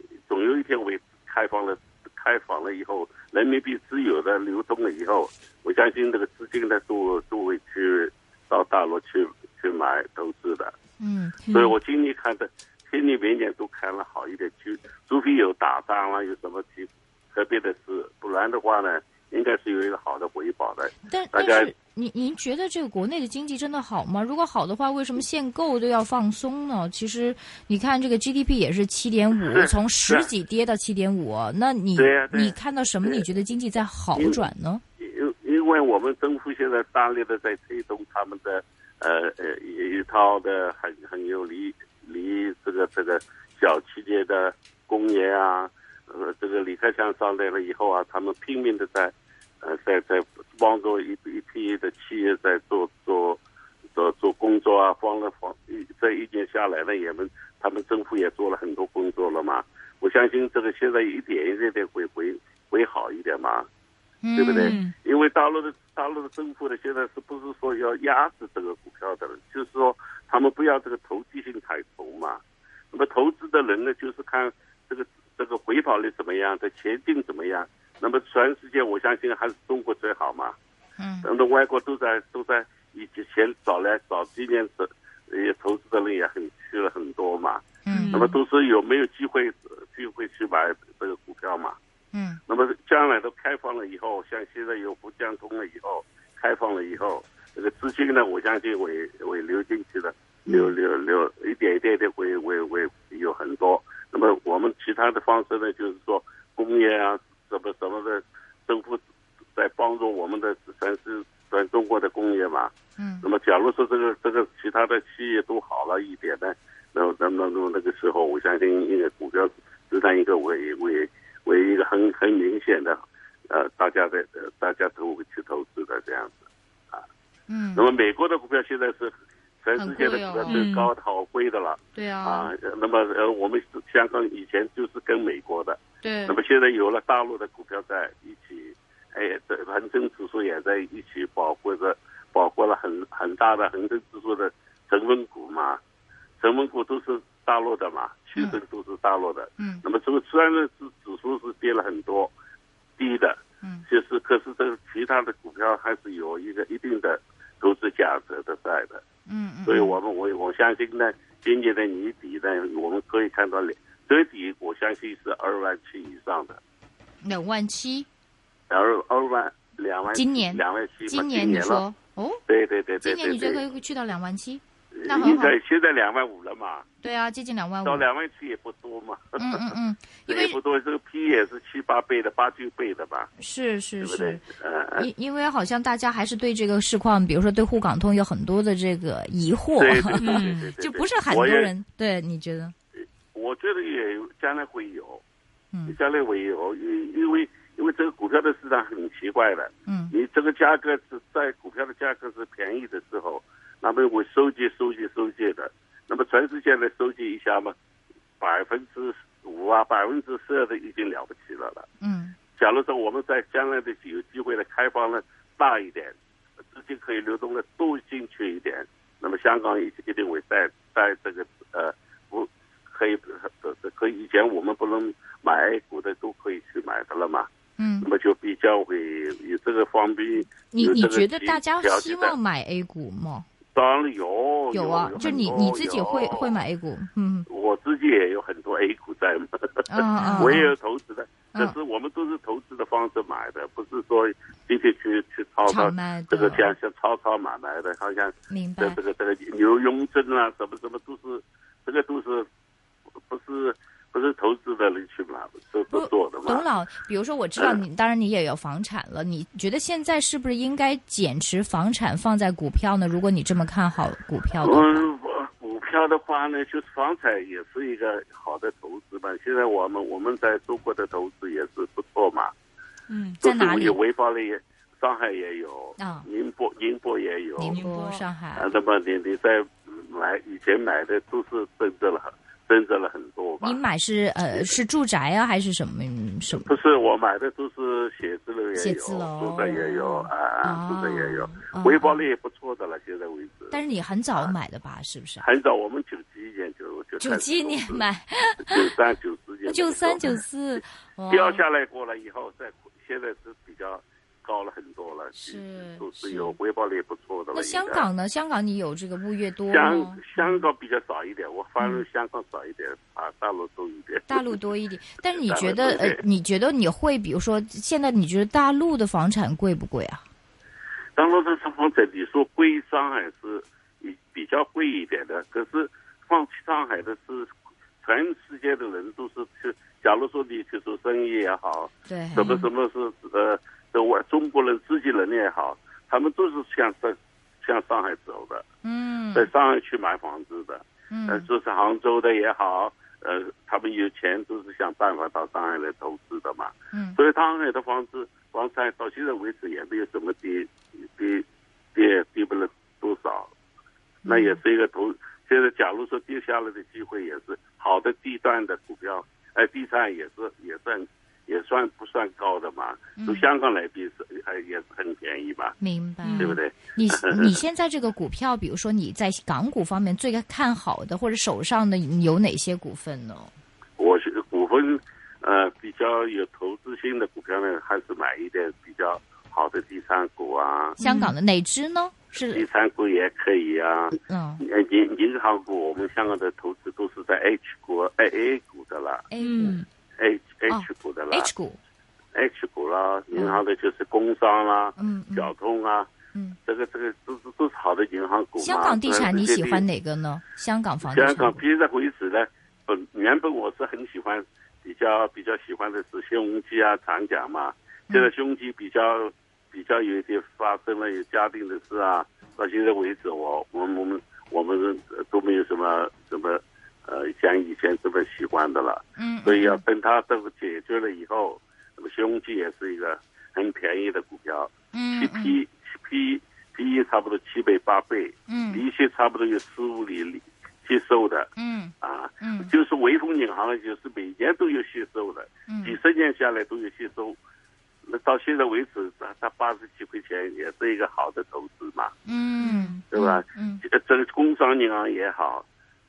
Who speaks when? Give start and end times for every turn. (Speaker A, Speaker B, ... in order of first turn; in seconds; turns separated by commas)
Speaker A: 0.3-10.7, Speaker B: 11.0-11.5, Speaker A: 11.5-21.7, Speaker B: 21.1-34.8, Speaker A: 29.4-30.3, Speaker A: 31.9-33.2, Speaker A: 34.1-34.4, Speaker A: 35.0-53.4, Speaker A: 53.9-63.7, Speaker B: 64.2-64.8, Speaker A: 64.4-72.4, Speaker C: 64.6-65.0, Speaker A: 72.9-80.6, Speaker B: 81.0-81.3, Speaker A: 81.2-91.8, Speaker B: 87.8-88.3, Speaker C: 87.9-88.3, Speaker B: 92.1-92.4, Speaker A: 92.5-109.0, Speaker A: 109.5-126.4, Speaker B: 113.0-113.3, Speaker B: 127.5-127.9, Speaker A: 127.8-145.8, Speaker B: 129.8-130.6, Speaker C: 130.4-130.9, Speaker B: 131.9-132.5, Speaker B: 136.0-136.4, Speaker A: 146.4-152.3, Speaker B: 149.6-149.8, Speaker A: 153.0-159.0, Speaker B: 159.3-160.0, Speaker A: 159.7-166.6, Speaker B: 167.2-168.1, Speaker A: 168.7-171.8, Speaker B: 170.1-172.4, Speaker A: 172.5-173.6, Speaker B: 173.0-175.6, Speaker A: 174.9-176.9, Speaker B: 177.0-178.1, Speaker A: 177.8-179.6, Speaker B: 179.4-180.6, Speaker A: 180.3-183.3, Speaker B: 183.4-184.4, Speaker A: 184.0-185.1, Speaker B: 184.9-192.8, Speaker A: 189.8-191.7, Speaker C: 190.2-190.7, Speaker A: 193.3-195.2, Speaker A: 195.9-207.8, Speaker B: 199.9-200.1, Speaker A: 208.4-211.9, Speaker B: 212.0-212.4, Speaker A: 212.6-216.2, Speaker A: 216.7-227.5, Speaker B: 227.8-228.1, Speaker A: 228.0-232.3, Speaker B: 230.7-233.5, Speaker A: 233.7-236.6, Speaker B: 234.7-237.5, Speaker C: 235.2-235.4, Speaker A: 237.5-252.5, Speaker B: 239.9-240.7, Speaker C: 240.2-240.6, Speaker B: 245.7-246.7, Speaker B: 248.5-249.0, Speaker A: 253.3-256.6, Speaker B: 255.9-265.1, Speaker A: 257.6-257.8, Speaker A: 264.6-272.5, Speaker C: 273.1-273.4, Speaker B: 273.4-274.0, Speaker A: 273.4-277.8, Speaker B: 276.0-276.3, Speaker B: 277.6-278.7, Speaker C: 277.7-278.2, Speaker A: 278.6-283.8, Speaker B: 283.6-286.7, Speaker A: 286.6-293.8, Speaker B: 288.8-292.2, Speaker B: 293.7-295.4, Speaker A: 295.4-298.1, Speaker B: 297.2-298.9, Speaker A: 298.6-300.4, Speaker B: 299.7-301.6, Speaker A: 301.3-308.1, Speaker B: 305.4-306.6, Speaker B: 307.5-310.6, Speaker A: 309.7-314.5, Speaker B: 314.3-320.2, Speaker A: 315.3-316.2, Speaker A: 321.1-327.5, Speaker A: 328.0-338.6, Speaker B: 332.1-332.6, Speaker B: 338.8-339.5, Speaker A: 339.3-353.5, Speaker B: 341.1-341.5, Speaker B: 346.9-347.2, Speaker B: 354.2-354.6, Speaker A: 354.3-365.8, Speaker B: 363.2-363.5, Speaker B: 365.8-373.5, Speaker C: 366.2-366.6, Speaker A: 366.4-367.5, Speaker A: 374.0-381.0, Speaker B: 381.0-382.6, Speaker C: 381.0-381.3, Speaker A: 382.5-389.2, Speaker B: 384.2-384.6, Speaker B: 389.3-389.8, Speaker C: 389.4-389.9, Speaker A: 390.2-391.5, Speaker B: 390.7-391.8, Speaker A: 392.3-396.1, Speaker B: 393.3-393.6, Speaker B: 395.0-395.5, Speaker A: 396.6-399.9, Speaker B: 398.6-401.6, Speaker A: 401.0-431.5, Speaker B: 419.2-419.8, Speaker B: 424.9-425.6, Speaker B: 428.5-428.8, Speaker B: 431.6-432.7, Speaker A: 432.0-437.4, Speaker B: 435.7-436.0, Speaker A: 438.1-442.1, Speaker B: 442.3-443.8, Speaker C: 442.6-443.0, Speaker A: 443.1-445.6